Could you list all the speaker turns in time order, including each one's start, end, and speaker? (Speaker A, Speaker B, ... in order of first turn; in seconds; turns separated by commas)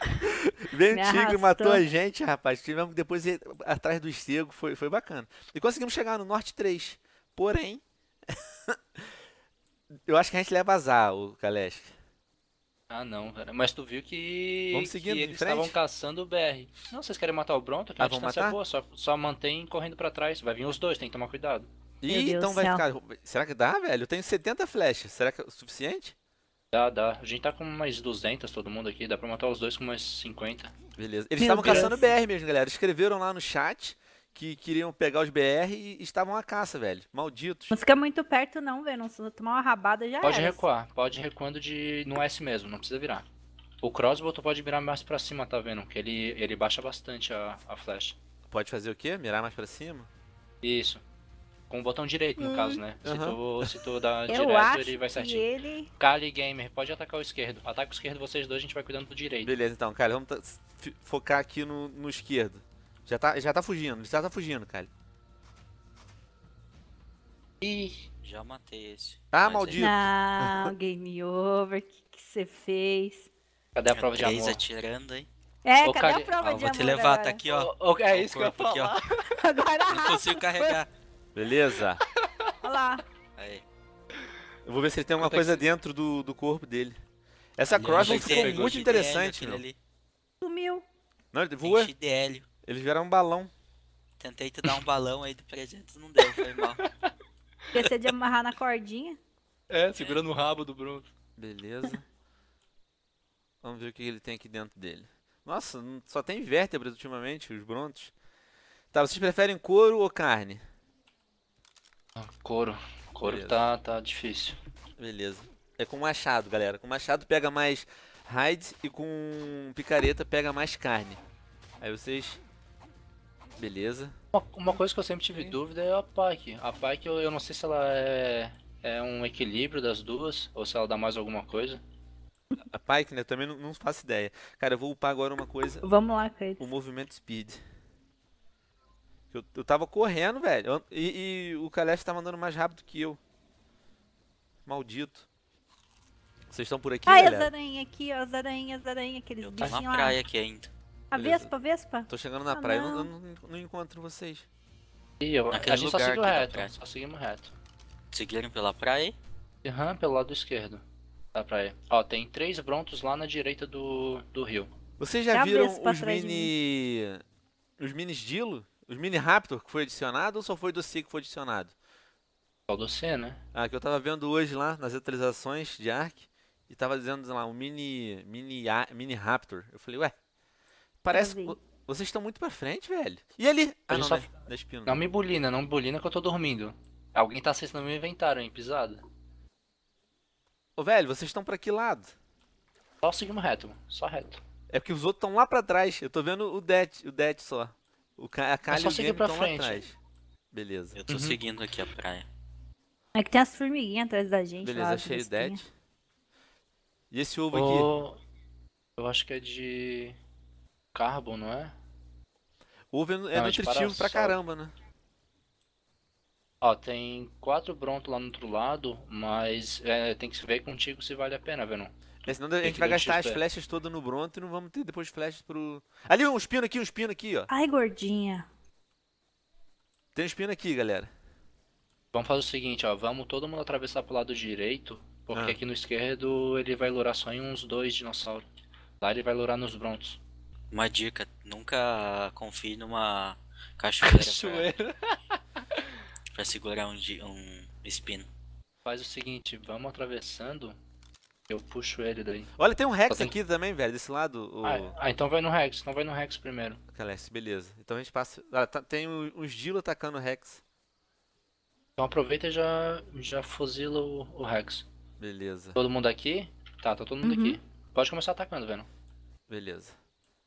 Speaker A: 0.3-9.1, Speaker B: 0.9-1.8, Speaker A: 9.9-11.9, Speaker C: 12.9-21.7, Speaker A: 14.7-15.8, Speaker A: 18.0-18.6, Speaker A: 22.0-26.1, Speaker B: 22.1-22.9, Speaker C: 26.7-30.7, Speaker A: 31.0-37.8, Speaker B: 31.4-32.1, Speaker C: 31.6-32.0, Speaker B: 37.7-40.6, Speaker C: 40.2-43.2, Speaker C: 43.8-48.2, Speaker A: 48.5-50.1, Speaker C: 50.6-51.0, Speaker C: 51.7-59.5, Speaker A: 52.4-53.8, Speaker B: 54.3-55.9, Speaker A: 59.4-64.9, Speaker C: 67.6-68.1, Speaker D: 68.2-69.8, Speaker A: 69.3-70.7, Speaker B: 69.8-73.3, Speaker C: 73.8-74.6, Speaker D: 73.9-75.3, Speaker B: 75.7-77.4, Speaker C: 75.8-76.4, Speaker D: 76.4-79.0, Speaker C: 77.5-79.3, Speaker B: 79.4-80.5, Speaker D: 79.9-80.9, Speaker A: 81.3-82.0, Speaker B: 82.6-83.0, Speaker D: 83.4-83.6, Speaker A: 84.7-87.0, Speaker C: 85.2-85.7, Speaker A: 87.6-89.7, Speaker C: 87.7-88.9, Speaker D: 87.8-89.8, Speaker B: 90.4-90.8, Speaker A: 91.3-91.9, Speaker D: 91.6-92.5, Speaker A: 92.7-93.5, Speaker D: 94.2-96.8, Speaker C: 96.3-96.9, Speaker B: 97.7-99.2, Speaker C: 99.7-101.1, Speaker D: 100.0-100.2, Speaker A: 101.4-102.0, Speaker A: 103.6-108.1, Speaker A: 108.9-110.6, Speaker C: 112.2-114.6, Speaker A: 113.2-113.7, Speaker A: 115.0-121.2, Speaker A: 121.8-122.4, Speaker A: 123.6-124.2, Speaker C: 124.3-131.8, Speaker A: 132.7-135.8, Speaker B: 135.8-136.7, Speaker A: 136.6-137.6, Speaker A: 139.3-143.2, Speaker A: 144.7-145.3, Speaker A: 146.5-147.5, Speaker B: 147.1-150.2, Speaker D: 149.4-150.7, Speaker B: 151.1-153.1, Speaker A: 151.1-151.5, Speaker A: 152.1-154.5, Speaker C: 155.2-157.5, Speaker D: 155.5-156.7, Speaker D: 158.1-159.2, Speaker C: 159.6-160.8, Speaker C: 161.3-164.7, Speaker A: 165.0-167.2, Speaker B: 165.3-166.5, Speaker A: 167.8-171.7, Speaker C: 172.7-173.4, Speaker A: 173.5-180.1, Speaker A: 181.0-185.0, Speaker B: 181.1-181.6, Speaker C: 183.9-184.3, Speaker C: 184.9-189.0, Speaker A: 190.8-192.1, Speaker C: 193.0-194.4, Speaker A: 194.7-200.0, Speaker C: 198.7-199.9, Speaker A: 200.5-201.0, Speaker D: 200.9-202.3, Speaker C: 201.1-201.4, Speaker B: 203.1-205.6, Speaker A: 204.6-205.7, Speaker A: 207.1-207.9, Speaker C: 207.5-208.2, Speaker C: 209.0-210.2, Speaker C: 210.9-211.7, Speaker A: 212.9-214.7, Speaker C: 213.3-214.4, Speaker C: 216.6-223.4, Speaker A: 222.3-227.5, Speaker B: 227.5-228.5, Speaker A: 230.1-231.1, Speaker C: 232.1-238.5, Speaker A: 235.3-235.6, Speaker C: 239.0-240.2, Speaker D: 240.7-244.7, Speaker C: 244.0-245.9, Speaker D: 246.3-248.3, Speaker C: 248.8-250.8, Speaker C: 251.5-252.5, Speaker A: 252.6-255.0, Speaker C: 253.1-253.4, Speaker C: 254.6-256.8, Speaker A: 256.9-260.6, Speaker C: 262.0-264.9, Speaker A: 265.2-265.8, Speaker C: 265.8-268.9, Speaker B: 267.2-267.6, Speaker A: 269.5-269.9